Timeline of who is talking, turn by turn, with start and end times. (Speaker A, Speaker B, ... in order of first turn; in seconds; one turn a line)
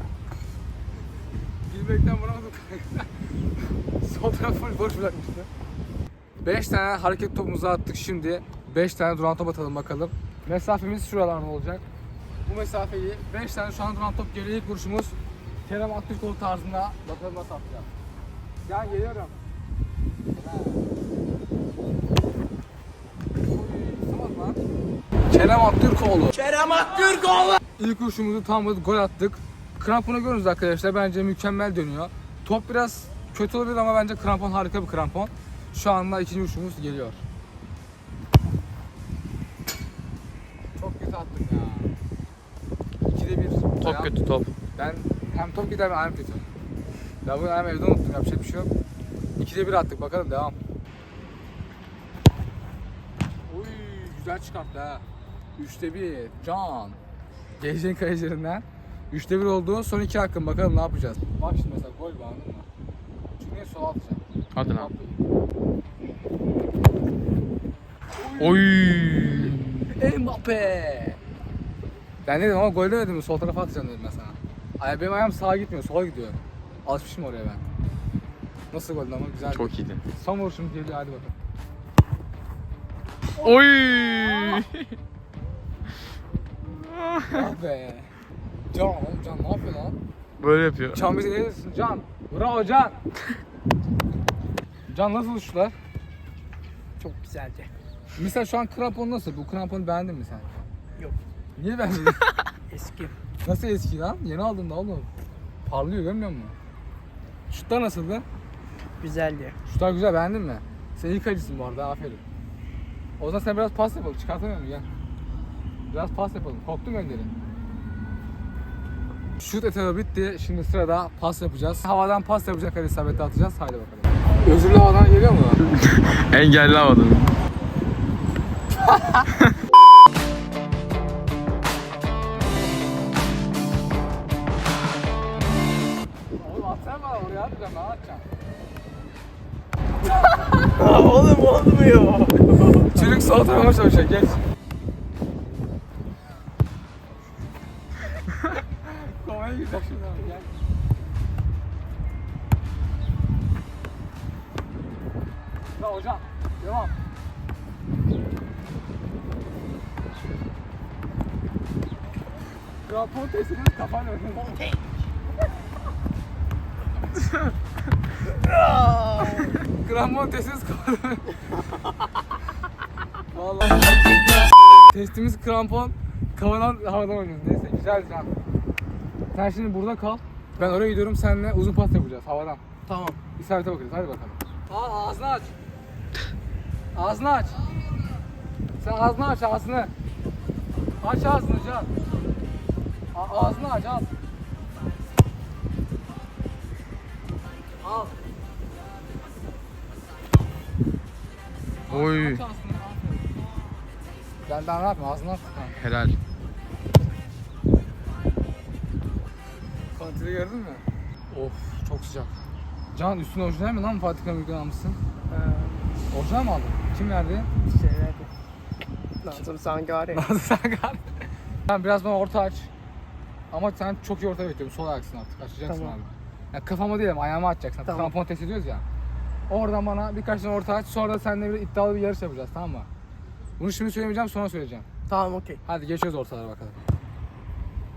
Speaker A: 1.7-5.5
Speaker A: 6.4-11.8
Speaker A: 12.4-17.9
Speaker A: 18.6-19.3
Speaker A: 20.3-20.9
Speaker A: 23.4-24.6
Speaker A: 25.3-26.4
Speaker B: 26.4-27.6
Speaker A: 27.8-37.2
Speaker A: 40.8-41.9
Speaker A: 43.1-44.1
Speaker C: 43.8-44.5
Speaker A: 44.8-46.5
Speaker A: 47.2-48.7
Speaker A: 49.4-50.6
Speaker A: 53.5-55.0
Speaker A: 55.6-57.0
Speaker A: 57.6-62.7
Speaker A: 63.4-65.2
Speaker C: 64.5-64.9
Speaker A: 68.2-68.7
Speaker C: 68.4-69.7
Speaker A: 69.2-71.2
Speaker A: 72.2-77.6
Speaker A: 78.7-81.3
Speaker C: 79.5-80.0
Speaker C: 83.4-84.9
Speaker C: 86.9-87.4
Speaker A: 87.3-88.1
Speaker A: 88.7-90.0
Speaker C: 90.4-91.0
Speaker A: 90.9-93.0
Speaker A: 94.9-95.8
Speaker B: 97.0-97.7
Speaker A: 98.2-100.6
Speaker A: 101.5-102.3
Speaker B: 102.7-103.2
Speaker A: 103.4-105.1
Speaker A: 105.7-106.5
Speaker A: 107.5-108.2
Speaker B: 109.0-109.5
Speaker A: 109.7-112.2
Speaker A: 113.2-114.9
Speaker A: 115.9-117.3
Speaker A: 119.4-125.6
Speaker C: 125.9-127.3
Speaker A: 136.4-138.2
Speaker B: 140.7-143.2
Speaker A: 142.9-144.4
Speaker A: 148.8-150.5
Speaker A: 155.8-156.9
Speaker A: 162.8-164.6
Speaker B: 168.4-169.6
Speaker A: 169.6-171.4
Speaker A: 173.3-174.0
Speaker A: 174.9-178.3
Speaker A: 179.3-182.6
Speaker B: 182.9-183.2
Speaker A: 183.4-185.5
Speaker A: 186.9-187.7
Speaker A: 188.8-189.9
Speaker A: 191.0-191.9
Speaker A: 193.1-194.1
Speaker A: 197.8-198.1
Speaker C: 201.9-202.4
Speaker A: 201.9-203.4
Speaker A: 204.4-205.8
Speaker C: 205.8-206.2
Speaker A: 209.9-212.3
Speaker A: 212.9-215.0
Speaker B: 215.3-215.9
Speaker A: 216.1-217.5
Speaker B: 217.6-218.3
Speaker B: 219.2-220.2
Speaker A: 220.1-221.1
Speaker A: 221.7-222.7
Speaker A: 223.5-228.8
Speaker B: 225.7-225.9
Speaker A: 229.5-232.9
Speaker A: 233.6-234.8
Speaker B: 235.1-235.6
Speaker A: 235.7-236.8